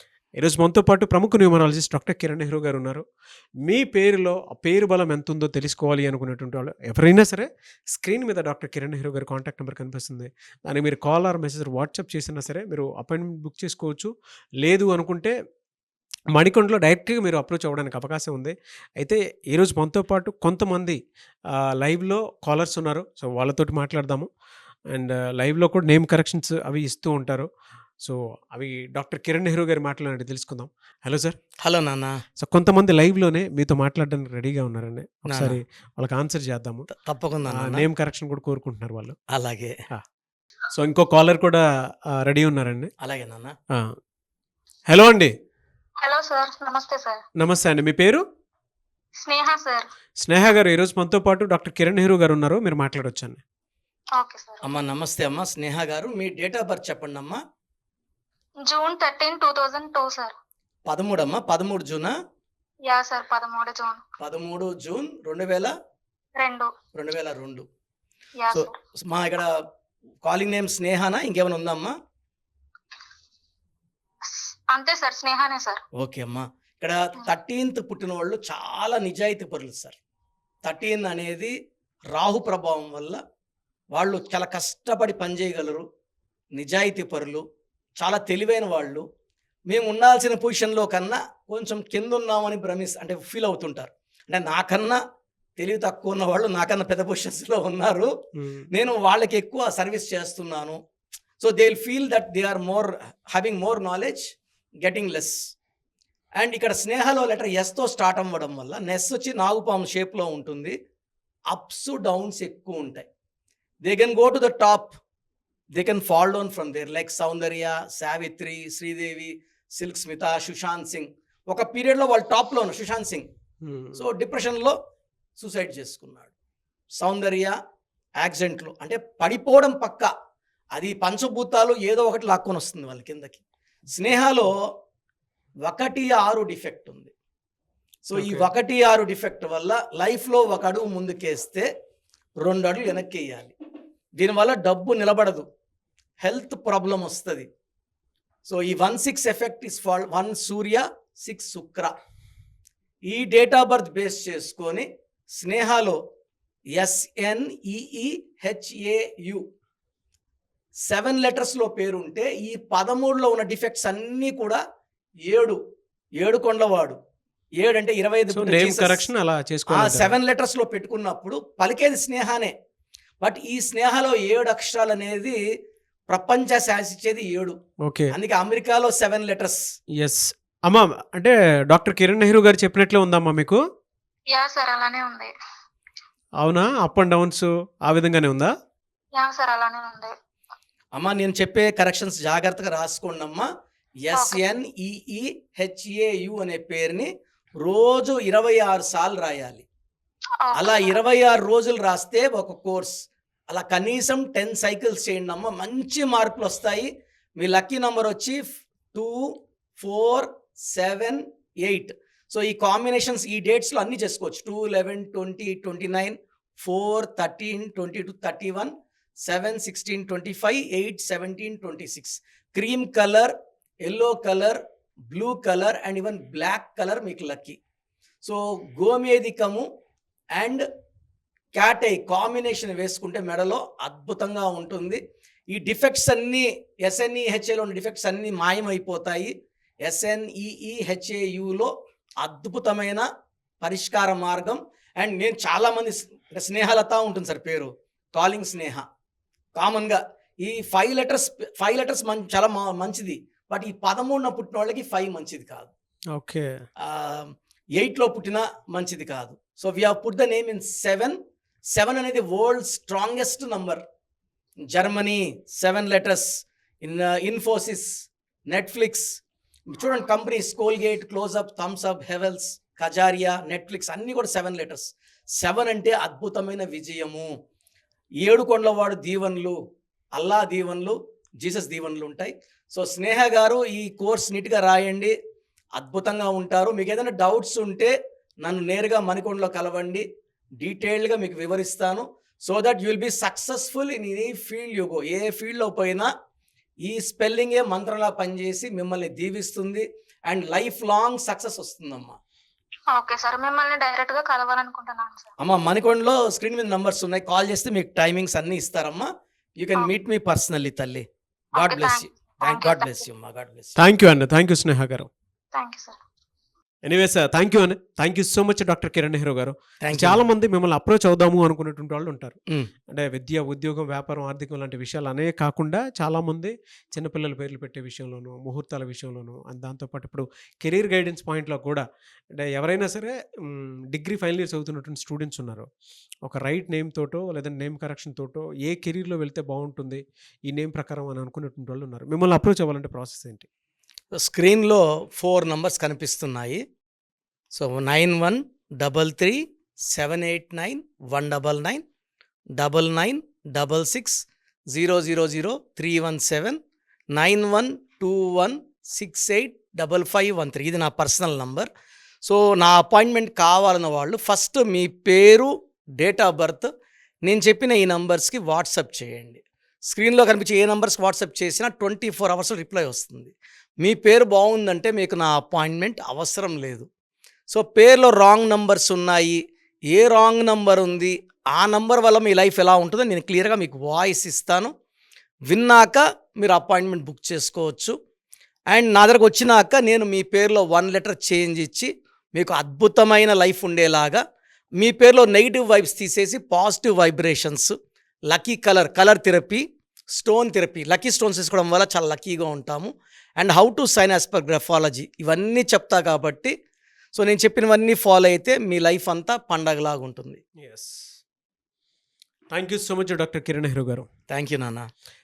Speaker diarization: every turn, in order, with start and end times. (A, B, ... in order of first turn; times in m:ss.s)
0:00.4-0:03.0 A
0:03.6-0:14.1 A
0:14.6-0:15.3 A
0:16.3-0:21.0 A
0:21.5-0:24.3 A
0:24.9-0:27.5 A
0:28.0-0:31.4 A
0:31.6-0:32.2 B
0:32.4-0:36.9 A
0:35.3-0:35.6 B
0:36.9-0:37.8 B
0:37.5-0:39.2 A
0:39.3-0:39.8 B
0:40.7-0:42.9 A
0:43.0-0:43.5 B
0:44.9-0:45.3 A
0:46.0-0:47.2 C
0:47.4-0:48.2 A
0:49.2-0:49.9 C
0:50.2-0:53.4 A
0:54.2-0:54.6 C
0:54.6-0:57.4 B
0:58.6-1:00.3 C
1:00.8-1:02.1 B
1:02.9-1:04.0 C
1:04.2-1:05.7 B
1:06.4-1:06.7 C
1:07.0-1:07.6 B
1:08.4-1:08.8 C
1:08.5-1:09.6 B
1:10.2-1:12.0 B
1:14.3-1:15.8 C
1:16.0-1:20.0 B
1:20.6-1:21.5 B
1:22.1-1:23.2 B
1:23.9-1:25.8 B
1:26.6-1:27.4 B
1:28.0-1:29.0 B
1:29.7-1:35.0 B
1:35.6-1:38.1 B
1:38.4-1:38.6 A
1:38.7-1:40.8 B
1:41.4-1:44.3 B
1:44.8-1:45.4 B
1:46.4-1:50.8 B
1:51.5-1:53.1 B
1:53.8-1:55.0 B
1:55.8-2:03.3 B
2:03.6-2:04.0 A
2:04.0-2:04.8 B
2:05.4-2:06.3 B
2:07.0-2:07.5 B
2:08.2-2:10.1 B
2:10.8-2:14.5 B
2:15.6-2:17.1 B
2:18.1-2:21.7 B
2:18.1-2:18.5 A
2:22.4-2:23.5 B
2:24.2-2:25.4 B
2:26.2-2:27.5 B
2:28.4-2:31.9 B
2:33.1-2:36.0 B
2:36.8-2:39.4 B
2:40.9-2:44.6 B
2:45.3-2:45.6 B
2:46.2-2:47.0 B
2:47.6-2:49.1 B
2:48.3-2:50.1 A
2:49.7-2:52.5 B
2:53.2-2:55.4 B
2:56.1-2:57.6 B
2:57.8-2:58.1 A
2:58.1-2:59.6 B
2:59.9-3:03.6 A
3:04.3-3:05.3 C
3:06.4-3:08.5 A
3:09.2-3:10.1 C
3:10.9-3:13.5 B
3:14.0-3:17.1 B
3:14.1-3:14.4 C
3:17.6-3:19.6 B
3:20.4-3:21.0 C
3:20.5-3:23.0 B
3:23.5-3:43.3 B
3:43.8-3:47.6 B
3:48.2-3:49.7 B
3:50.3-3:50.6 B
3:51.5-3:55.0 B
3:55.5-3:59.3 B
3:59.8-4:03.0 B
4:03.6-4:08.8 B
4:09.6-4:15.7 B
4:16.1-4:16.6 A
4:16.8-4:21.2 B
4:21.7-4:23.8 B
4:24.7-4:29.2 B
4:29.7-4:37.3 B
4:38.2-4:39.6 B
4:40.1-4:45.1 B
4:45.8-4:50.0 B
4:50.6-4:56.1 B
4:56.8-5:02.2 B
5:02.9-5:05.3 C
5:05.4-5:11.0 B
5:11.6-5:13.8 B
5:11.6-5:13.0 C
5:13.8-5:15.1 A
5:15.5-5:16.0 C
5:16.8-5:22.4 A
5:19.8-5:20.2 B
5:22.9-5:31.9 A
5:32.4-5:35.6 A
5:36.2-5:43.5 A
5:44.1-5:46.6 B
5:47.6-5:51.8 B
5:52.6-5:56.6 B
5:57.1-6:01.7 B
6:02.2-6:06.7 B
6:07.2-6:16.9 B
6:17.5-6:19.4 B
6:19.9-6:24.7 B
6:25.5-6:27.9 B
6:28.7-6:34.2 B
6:34.8-6:37.7 B
6:38.3-6:39.6 B
6:40.1-6:46.5 B
6:47.1-6:50.4 B
6:50.6-6:51.1 A
6:52.5-6:54.1 A
6:54.3-6:54.9 B